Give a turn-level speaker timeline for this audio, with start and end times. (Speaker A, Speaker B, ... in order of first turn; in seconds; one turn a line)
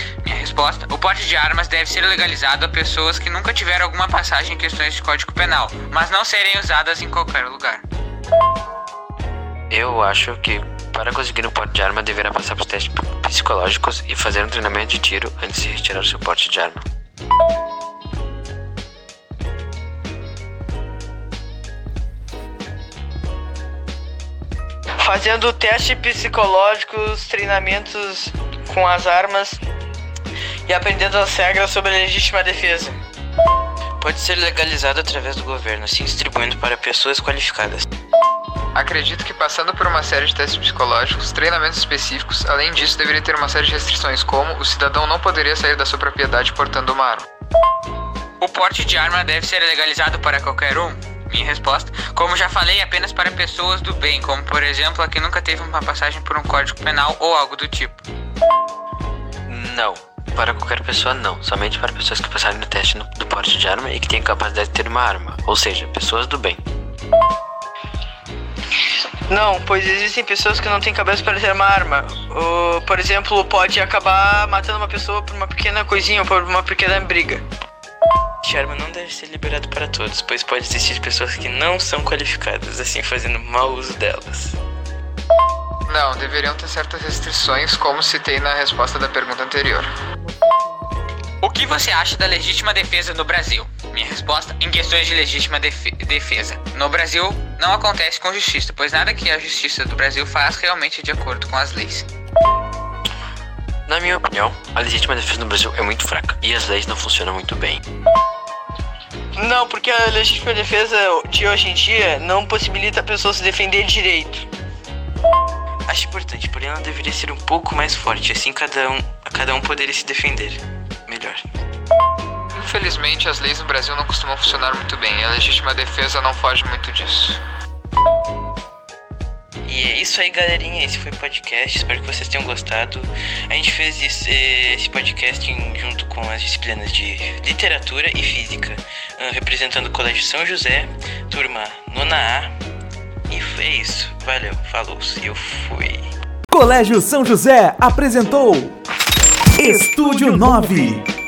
Speaker A: 0.2-7.8
Speaker B: 9.7-16.8
Speaker C: 25.0-29.6
Speaker C: 30.7-33.0
Speaker D: 34.0-37.9
Speaker E: 38.7-47.3
Speaker A: 48.4-58.0
Speaker B: 59.5-66.6
Speaker C: 69.3-77.4
Speaker D: 78.4-84.6
Speaker E: 85.9-89.9
Speaker A: 91.4-102.0
Speaker B: 103.9-107.8
Speaker C: 109.3-114.5
Speaker D: 115.9-121.4
Speaker E: 122.5-127.4
Speaker D: 129.7-142.5
Speaker D: 143.3-146.0
Speaker F: 146.5-148.8
Speaker F: 149.6-151.1